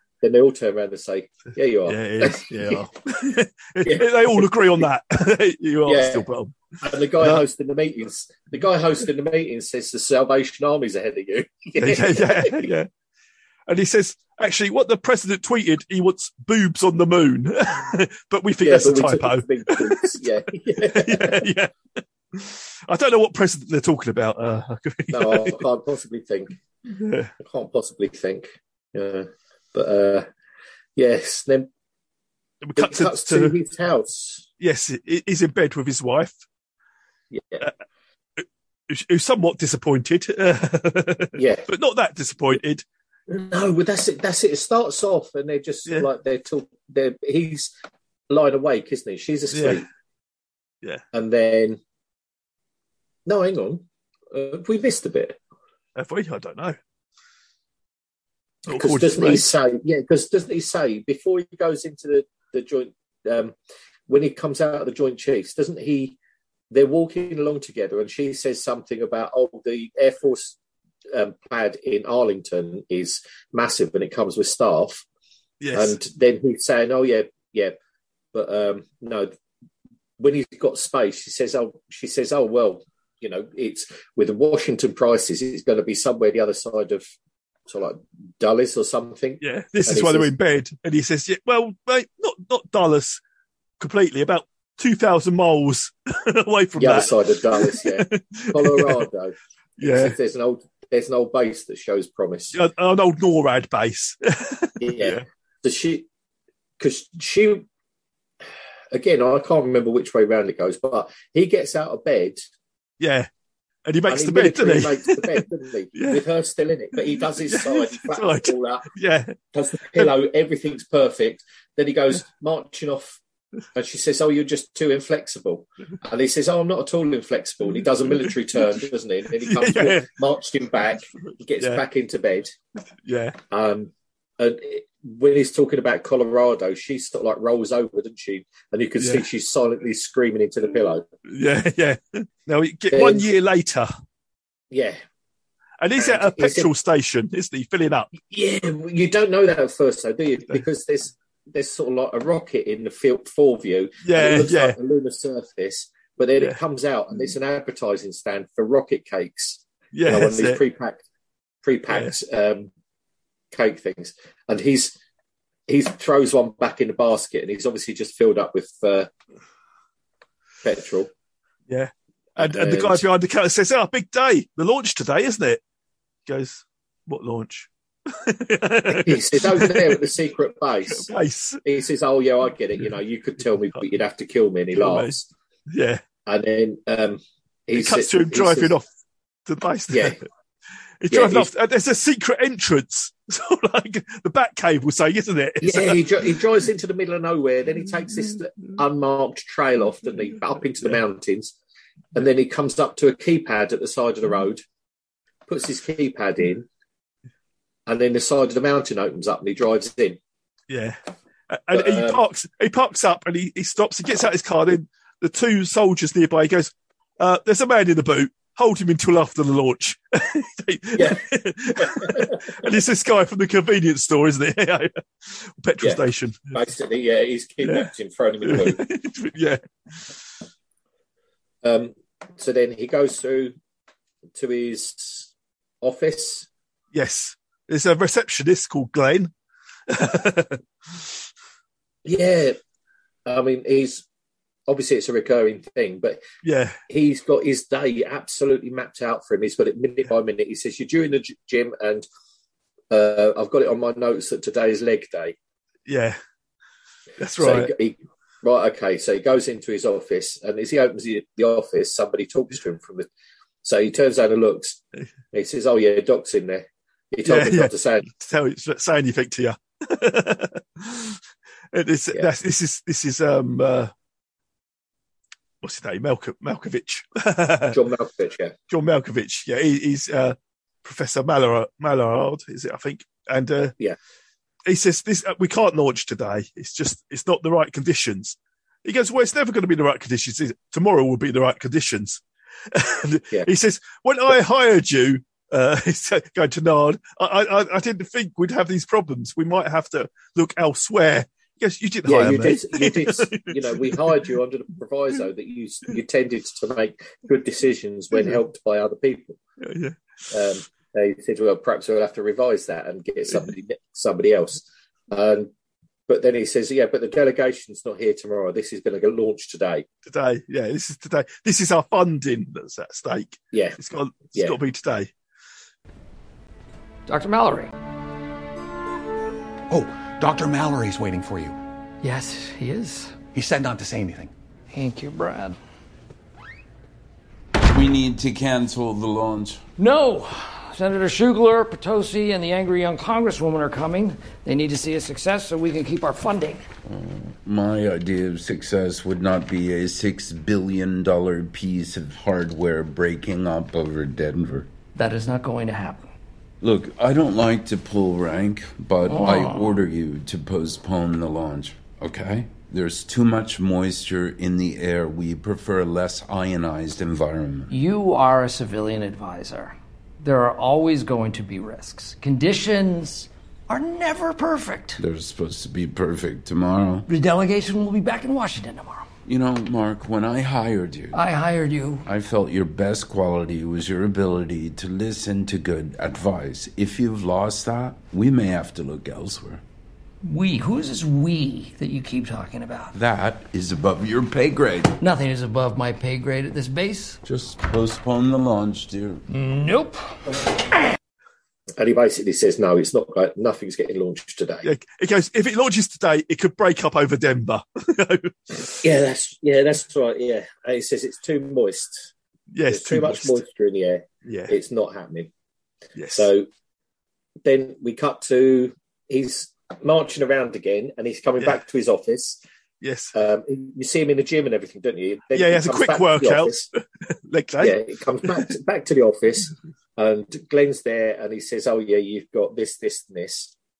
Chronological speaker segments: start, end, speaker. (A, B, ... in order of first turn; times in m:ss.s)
0:00.2-0:02.8 A
0:01.8-0:06.6 B
0:03.8-0:04.8 A
0:05.8-0:06.2 A
0:06.8-0:12.6 A
0:11.8-0:12.9 B
0:13.7-0:20.1 B
0:18.6-0:21.4 A
0:20.8-0:21.7 B
0:22.3-0:25.6 B
0:25.1-0:26.6 A
0:27.0-0:27.3 B
0:27.4-0:30.3 A
0:31.0-0:31.7 A
0:32.6-0:33.6 B
0:32.8-0:34.5 A
0:34.6-0:36.4 B
0:37.3-0:37.6 A
0:38.9-0:42.8 B
0:41.4-0:41.6 A
0:43.3-0:47.7 A
0:48.3-0:49.8 A
0:49.5-0:49.8 B
0:51.1-0:51.8 A
0:53.2-0:55.4 A
0:56.0-0:56.8 B
0:58.7-1:03.5 A
0:58.7-0:59.4 B
1:04.1-1:06.2 A
1:06.7-1:10.6 A
1:11.1-1:15.0 A
1:15.6-1:16.0 B
1:15.7-1:17.7 A
1:18.3-1:19.3 A
1:20.2-1:27.1 A
1:27.7-1:30.3 A
1:29.4-1:33.2 B
1:33.8-1:39.0 B
1:36.8-1:42.6 A
1:39.8-1:40.1 B
1:42.5-1:45.2 B
1:44.8-1:46.1 A
1:46.8-1:47.6 A
1:48.9-1:52.4 A
1:53.0-1:53.3 B
1:53.8-1:56.2 B
1:54.1-1:58.9 A
1:57.1-1:59.3 B
1:59.5-2:03.2 A
2:03.7-2:12.5 A
2:08.2-2:08.7 B
2:09.4-2:10.1 B
2:13.0-2:13.4 B
2:13.5-2:21.0 A
2:21.3-2:23.9 B
2:22.9-2:23.2 A
2:24.7-2:25.0 A
2:25.8-2:28.1 B
2:26.0-2:26.7 A
2:28.3-2:41.0 A
2:34.0-2:34.8 B
2:39.9-2:40.6 B
2:41.6-2:42.7 A
2:43.5-2:45.0 A
2:45.7-2:49.1 A
2:50.6-2:51.1 A
2:51.7-2:55.6 B
2:52.4-2:53.0 A
2:56.3-3:00.0 B
2:58.9-3:01.1 A
3:00.9-3:01.6 B
3:01.6-3:05.3 A
3:04.7-3:05.1 B
3:05.7-3:06.0 B
3:06.2-3:08.7 A
3:07.8-3:08.8 B
3:09.5-3:10.2 B
3:11.0-3:16.1 B
3:11.1-3:11.5 A
3:15.6-3:21.5 A
3:22.1-3:24.6 A
3:25.5-3:26.6 A
3:27.9-3:30.2 A
3:30.7-3:31.0 B
3:31.5-3:46.5 B
3:31.7-3:32.2 A
3:41.8-3:42.4 A
3:45.8-3:48.8 A
3:47.6-3:47.9 B
3:48.4-3:49.6 B
3:51.6-3:53.5 A
3:54.3-3:55.3 A
3:55.8-3:56.5 A
3:56.9-3:59.3 B
3:59.9-4:01.0 B
4:02.0-4:02.6 A
4:03.2-4:04.0 A
4:04.7-4:06.2 A
4:06.4-4:06.8 B
4:06.9-4:12.0 A
4:12.9-4:15.4 A
4:15.9-4:16.2 B
4:17.2-4:17.7 B
4:17.4-4:23.1 A
4:23.6-4:24.8 A
4:25.3-4:28.1 A
4:27.2-4:31.2 B
4:31.7-4:33.9 B
4:35.6-4:37.8 B
4:37.7-4:38.5 A
4:38.7-4:43.7 B
4:44.6-4:52.2 B
4:52.7-5:04.2 B
5:02.0-5:09.4 A
5:09.6-5:09.9 B
5:10.3-5:15.5 A
5:16.1-5:19.8 A
5:20.0-5:25.1 B
5:23.5-5:24.6 A
5:27.1-5:27.7 C
5:29.7-5:31.5 D
5:32.0-5:33.2 C
5:33.3-5:34.3 D
5:34.7-5:35.6 C
5:37.6-5:39.6 E
5:39.8-5:46.6 C
5:46.8-5:54.7 E
5:54.9-5:56.1 C
5:56.6-6:07.7 E
5:59.0-5:59.8 C
6:07.7-6:15.0 C
6:15.0-6:17.1 E
6:17.1-6:19.1 C
6:19.2-6:21.2 E
6:21.1-6:22.0 C
6:22.0-6:29.6 E
6:30.2-6:32.9 C
6:32.9-6:35.0 E
6:35.0-6:37.2 C
6:37.2-6:39.2 E
6:39.3-6:40.0 C
6:41.8-6:44.6 A
6:44.6-6:48.7 B
6:48.8-6:52.1 A
6:52.5-6:53.4 B
6:52.7-6:55.3 A
6:54.2-6:54.5 B
6:56.0-6:56.3 B
6:56.2-6:56.5 A
6:57.4-7:02.4 A
7:02.8-7:03.1 B
7:03.1-7:06.7 A
7:05.3-7:07.8 B
7:07.6-7:13.5 A